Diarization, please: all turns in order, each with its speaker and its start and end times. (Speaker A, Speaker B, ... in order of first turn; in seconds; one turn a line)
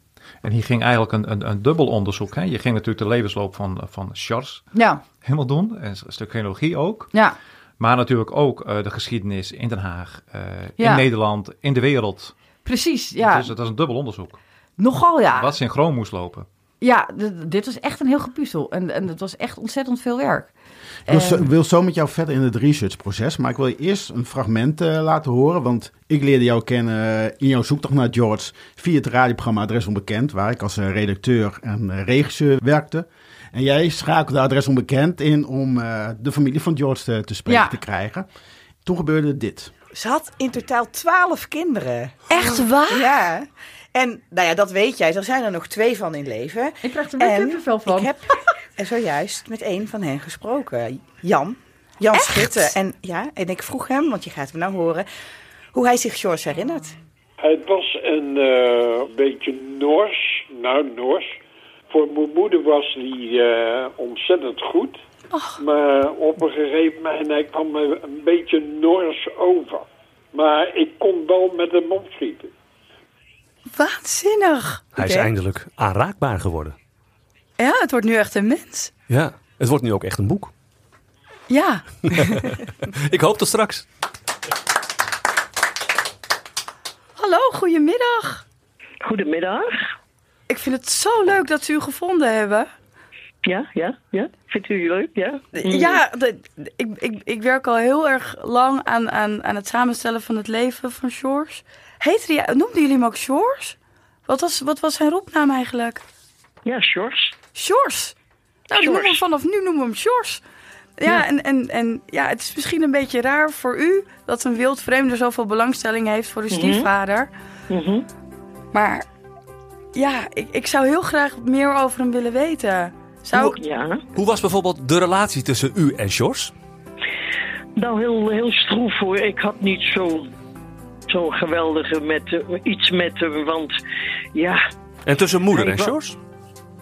Speaker A: 0.4-7.1
Speaker B: 4.7-5.0
Speaker A: 7.8-12.3
Speaker B: 12.7-13.5
Speaker A: 13.2-14.4
Speaker B: 14.8-15.5
Speaker A: 15.3-16.5
Speaker B: 16.8-20.5
Speaker C: 21.1-38.3
Speaker B: 21.1-21.4
Speaker B: 37.5-37.8
Speaker C: 38.9-39.7
Speaker D: 39.9-55.1
Speaker B: 42.3-43.0
Speaker B: 46.8-48.1
Speaker B: 52.1-52.6
Speaker D: 55.7-57.0
Speaker E: 57.4-61.3
Speaker E: 61.9-65.0
Speaker E: 65.6-72.5
Speaker B: 73.7-75.2
Speaker F: 75.0-76.8
Speaker B: 77.6-78.9
Speaker F: 79.1-80.5
Speaker B: 81.5-82.2
Speaker F: 82.0-83.9
Speaker B: 87.2-88.4
Speaker G: 89.0-89.8
Speaker B: 90.5-92.7
Speaker G: 93.4-96.0
Speaker B: 95.5-103.7
Speaker B: 104.3-106.0
Speaker G: 106.7-107.3
Speaker B: 107.5-108.1
Speaker B: 108.7-110.4
Speaker B: 111.0-117.3
Speaker G: 116.5-116.9
Speaker G: 117.7-118.0
Speaker B: 118.7-119.0
Speaker B: 120.0-123.6
Speaker G: 123.4-124.0
Speaker F: 124.1-126.5
Speaker G: 127.8-130.3
Speaker G: 131.1-133.8
Speaker G: 134.3-134.6
Speaker F: 135.1-136.2